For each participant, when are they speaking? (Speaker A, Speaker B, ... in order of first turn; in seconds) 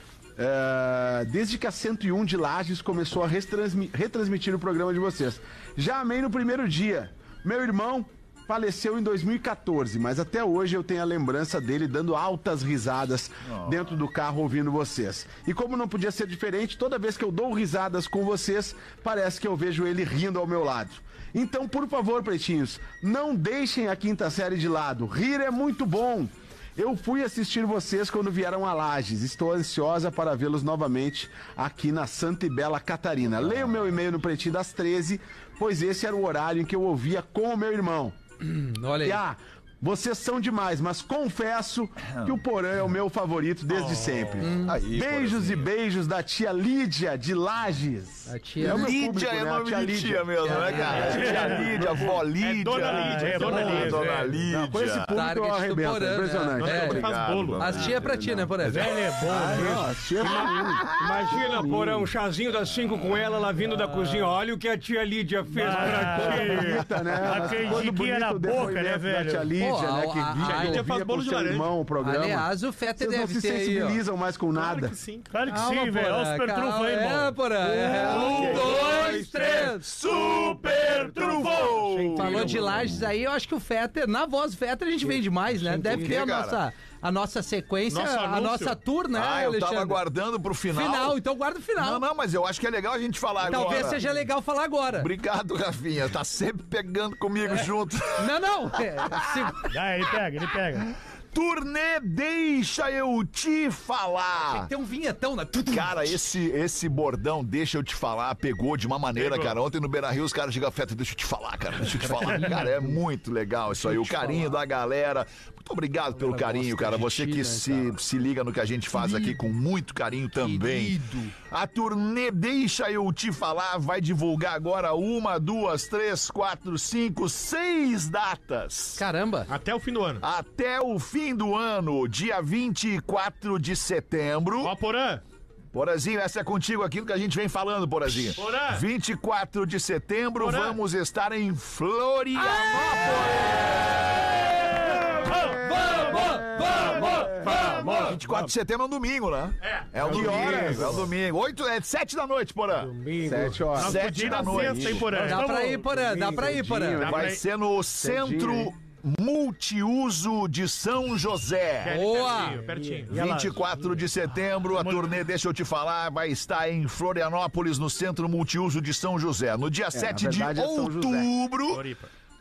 Speaker A: 0.4-38.1, 39.0-51.4, 54.5-58.6, 59.3-62.1, 65.6-75.0, 146.6-147.2, 150.0-151.1, 153.2-155.1, 156.3-157.4, 157.9-158.7, 169.9-171.3
Speaker B: 13.4-13.8, 44.5-45.7, 48.6-55.1, 56.6-58.1, 60.7-61.4, 78.0-78.9, 79.6-82.9, 85.9-86.6, 89.1-91.2, 91.8-94.0, 94.9-98.3, 101.3-104.7, 105.7-129.0, 130.2-134.7, 135.7-144.1, 147.8-152.9, 153.8-155.2, 157.0-162.0, 163.1-171.8
Speaker C: 38.4-39.2, 44.4-44.8, 48.2-48.9, 50.4-51.6, 55.1-57.0, 57.6-58.9, 63.8-64.3, 69.6-70.8, 72.0-74.0, 75.5-79.9, 82.1-90.0, 90.7-92.0, 93.4-95.1, 97.4-99.6, 104.5-106.2, 112.0-113.0, 113.7-114.5, 116.2-117.9, 120.4-121.3, 129.0-129.5, 145.7-147.2, 155.1-157.1, 161.9-162.6
Speaker D: 43.7-44.2, 52.4-54.3, 56.6-57.9, 70.4-71.7, 74.5-75.6, 87.9-88.8, 109.1-109.6, 129.5-130.2, 134.6-135.2, 138.4-138.8, 140.4-140.8, 147.3-148.1, 149.6-149.9, 153.8-155.7, 157.0-157.4, 161.8-163.1, 171.7-172.1
Speaker E: 51.0-52.0, 52.8-54.3, 58.7-59.8, 65.6-69.5, 75.3-77.4, 80.1-81.8, 99.7-100.9, 163.2-163.6, 164.7-165.2
Speaker F: 59.2-67.8, 77.7-79.8, 80.6-83.1, 85.0-86.2, 93.5-94.1, 145.2-148.5, 150.0-151.0, 152.7-153.9, 155.4-156.9, 162.4-164.1